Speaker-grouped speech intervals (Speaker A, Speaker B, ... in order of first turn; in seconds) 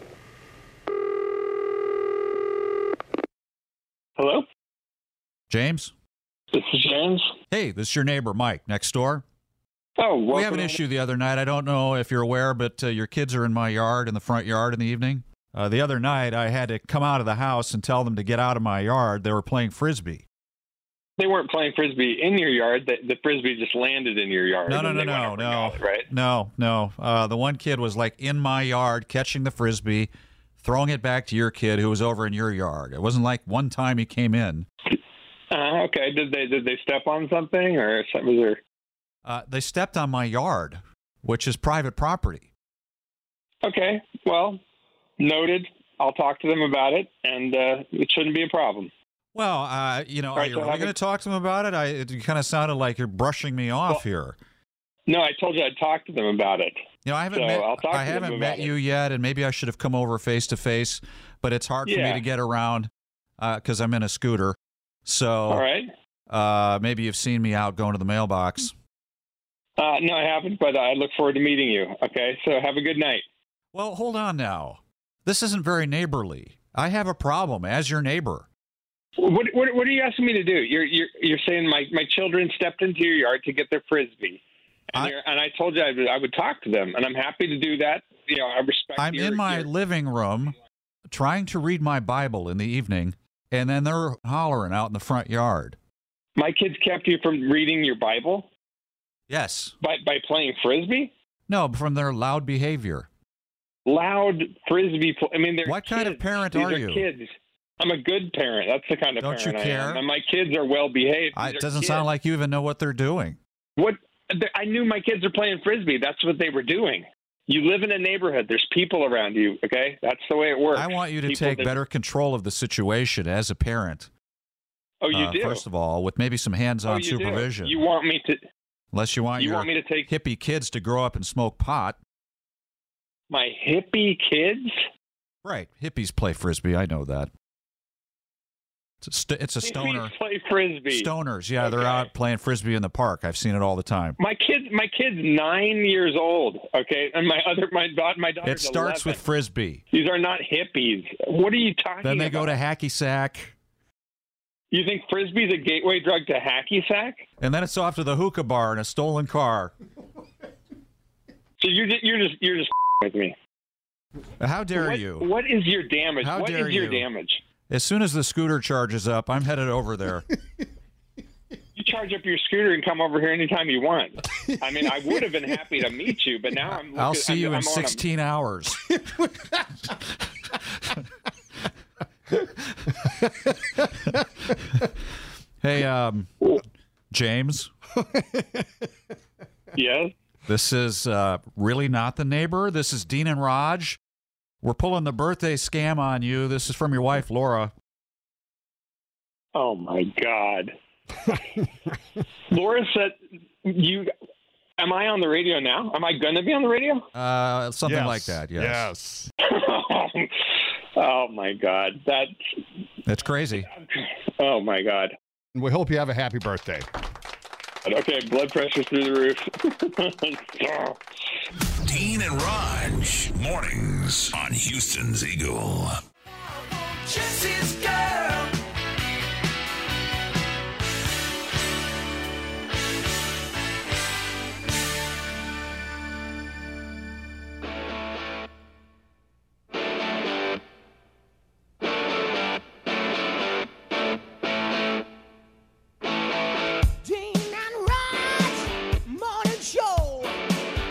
Speaker A: 4.2-4.4, 6.5-7.3, 10.0-10.8, 21.2-26.1, 35.5-38.6, 43.6-44.6, 45.2-48.9, 50.3-50.9, 55.1-58.7, 61.9-62.2, 65.5-65.9, 69.8-73.2, 79.2-84.4, 84.9-89.7, 96.4-98.5, 99.8-101.1, 103.8-112.0, 113.8-121.8, 125.0-125.6, 126.9-128.4, 129.4-130.1, 133.3-134.8, 139.6-142.1, 144.2-149.2, 149.9-152.6, 154.7-157.3, 161.6-163.3, 164.8-167.4, 171.8-178.0, 189.7-190.1, 199.5-200.7, 202.5-204.1, 204.8-207.0, 209.4-210.3, 210.9-212.3, 214.4-215.1, 217.8-221.0
Speaker B: 5.5-5.9, 7.5-9.2, 10.3-20.2, 24.7-34.6, 39.2-42.5, 49.3-54.4, 57.0-65.6, 66.3-68.7, 73.7-78.5, 89.0-90.5, 91.1-95.8, 99.3-99.7, 101.5-103.1, 105.6-107.0, 109.2-110.0, 111.3-113.4, 120.7-124.1, 125.1-127.7, 128.9-132.0, 135.4-137.3, 139.0-140.1, 140.9-144.2, 148.4-149.8, 152.0-153.5, 157.4-159.7, 164.4-165.3, 166.2-167.0, 167.7-170.3, 176.9-178.8, 185.6-186.5, 187.1-187.7, 190.5-194.0, 194.6-197.7, 207.1-208.9, 213.1-213.7
Speaker C: 188.0-188.6, 207.8-209.3, 215.5-216.8
Speaker D: 221.8-226.0
Speaker E: 227.1-228.1, 247.0-250.4